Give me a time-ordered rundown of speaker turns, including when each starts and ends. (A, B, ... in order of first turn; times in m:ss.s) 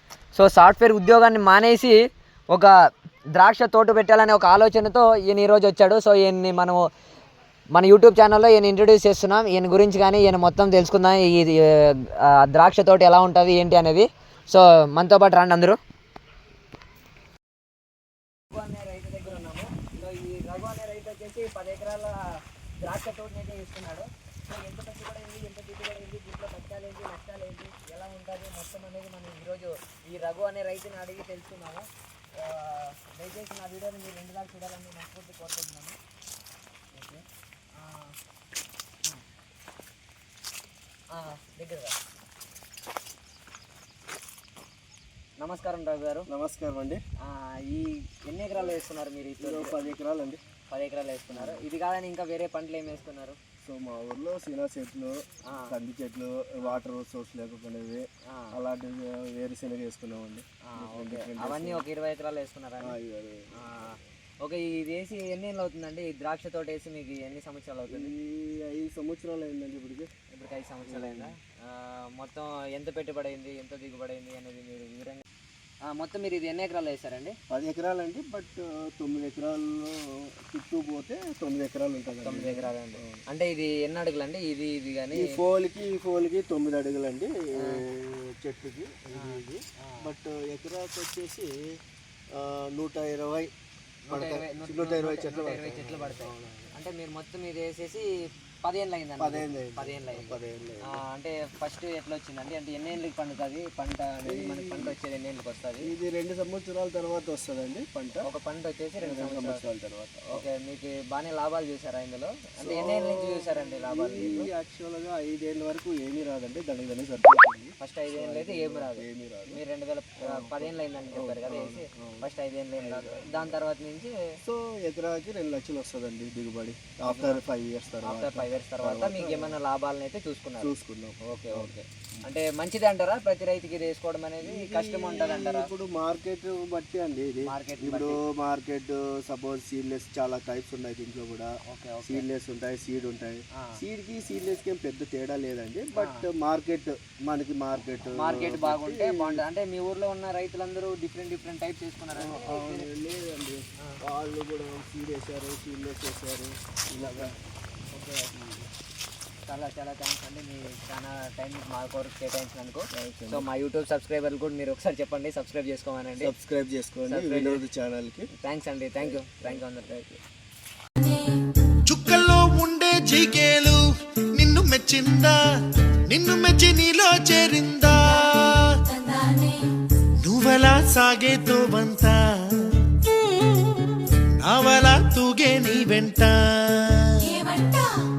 0:00.3-0:02.0 A
0:02.5-0:02.8 A
0:03.3-0:06.9 A
0:07.7-0:15.8 A
0:18.5-0:22.2 A
0:22.8-0:36.0 A
0:36.9-0:38.2 A
0:41.1-0:42.0 A
0:45.4-0:46.3 A
0:46.3-0:47.0 B
0:47.2-0:50.0 A
0:49.4-0:50.4 B
0:50.7-0:53.4 A
0:51.3-0:51.6 B
0:53.6-1:01.8 B
0:55.4-0:55.8 A
0:58.3-0:58.6 A
1:00.6-1:03.0 A
1:02.8-1:03.5 B
1:03.5-1:08.1 A
1:07.9-1:10.1 B
1:10.3-1:15.2 A
1:10.9-1:11.3 B
1:15.8-1:17.4 A
1:17.5-1:23.2 B
1:22.2-1:25.4 A
1:25.1-1:31.7 B
1:29.1-1:30.1 A
1:32.3-1:33.5 B
1:34.1-1:38.1 A
1:34.1-1:36.7 B
1:38.6-1:45.9 A
1:39.2-1:41.0 B
1:44.2-1:45.0 B
1:45.8-1:48.3 B
1:48.2-1:49.6 A
1:49.0-1:50.5 B
1:50.3-1:54.5 A
1:52.6-1:59.6 B
1:57.8-2:04.1 A
2:00.2-2:03.6 B
2:04.4-2:09.6 B
2:07.0-2:07.4 A
2:08.0-2:10.7 A
2:10.6-2:12.3 B
2:11.2-2:15.7 A
2:14.4-2:21.5 B
2:17.4-2:18.2 A
2:21.7-2:22.3 A
2:22.0-2:29.4 B
2:23.5-2:23.8 A
2:26.0-2:26.3 A
2:28.1-2:32.9 A
2:32.1-2:37.3 B
2:37.0-2:37.3 A
2:37.9-2:38.3 A
2:38.3-2:38.7 B
2:39.5-2:46.3 A
2:42.9-2:43.5 B
2:46.2-2:48.3 B
2:47.1-2:47.6 A
2:48.3-2:49.9 A
2:49.0-2:50.2 B
2:51.9-2:55.4 C
2:56.1-2:59.6 C
3:00.2-3:03.1 C
3:04.4-3:07.8 C